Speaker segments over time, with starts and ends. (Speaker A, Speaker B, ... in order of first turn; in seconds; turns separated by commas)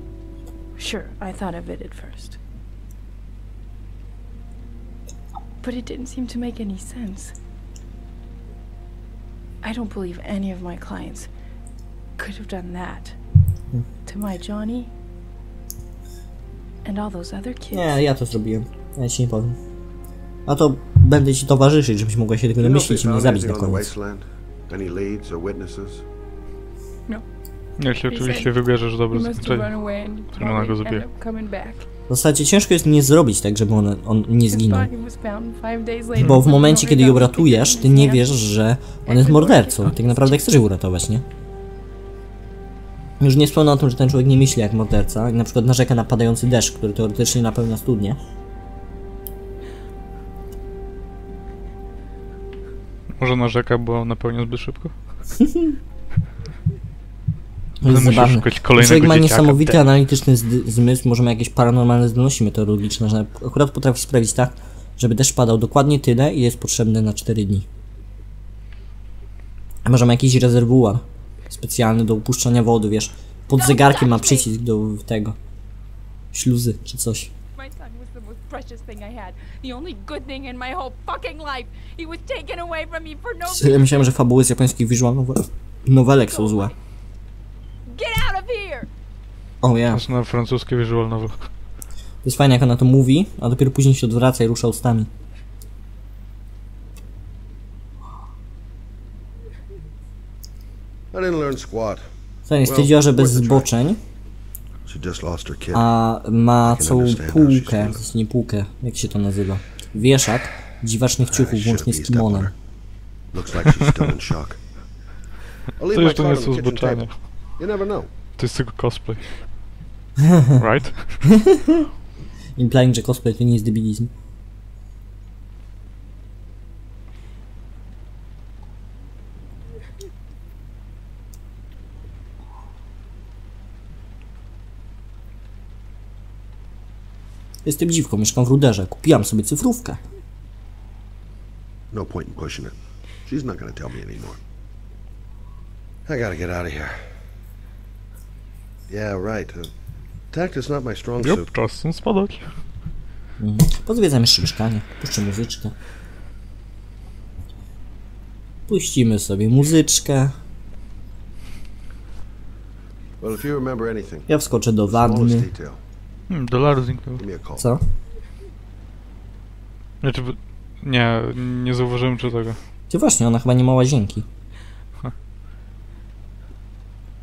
Speaker A: 0.8-2.4, Speaker A: 5.6-7.3, Speaker A: 9.6-11.3, Speaker A: 12.2-13.2, Speaker A: 14.0-14.9, Speaker A: 16.8-18.0, Speaker B: 17.7-19.6, Speaker B: 20.4-23.9, Speaker C: 22.5-26.0, Speaker D: 27.8-29.7, Speaker A: 28.1-31.9, Speaker D: 30.3-31.1, Speaker B: 32.1-34.9, Speaker A: 34.5-38.4, Speaker B: 36.1-41.2, Speaker A: 39.0-40.5, Speaker B: 43.2-48.2, Speaker D: 53.2-54.9, Speaker B: 57.8-67.7, Speaker D: 57.9-59.8, Speaker B: 69.8-75.3, Speaker A: 73.5-74.5, Speaker B: 76.3-77.3, Speaker A: 77.5-83.9, Speaker B: 83.4-86.7, Speaker A: 86.3-86.7, Speaker A: 87.8-88.9, Speaker B: 89.6-90.0, Speaker D: 89.9-91.5, Speaker B: 92.2-95.1, Speaker C: 101.1-102.0, Speaker B: 102.5-104.0, Speaker C: 102.6-103.7, Speaker C: 104.8-105.9, Speaker B: 105.7-112.5, Speaker C: 106.6-108.0, Speaker C: 111.2-112.5, Speaker C: 113.3-114.6, Speaker C: 115.8-118.1, Speaker D: 115.9-117.2, Speaker D: 118.4-119.5, Speaker D: 120.5-121.3, Speaker B: 122.5-124.1, Speaker B: 137.6-140.0, Speaker C: 141.9-144.4, Speaker C: 146.1-146.9, Speaker C: 148.9-149.7, Speaker C: 150.3-151.5, Speaker D: 151.2-152.6, Speaker B: 153.4-155.7, Speaker B: 158.7-160.3, Speaker C: 163.2-164.3, Speaker B: 164.3-165.5, Speaker C: 164.8-165.8, Speaker D: 166.3-167.2, Speaker C: 167.2-167.6, Speaker D: 170.0-172.6, Speaker B: 172.9-174.2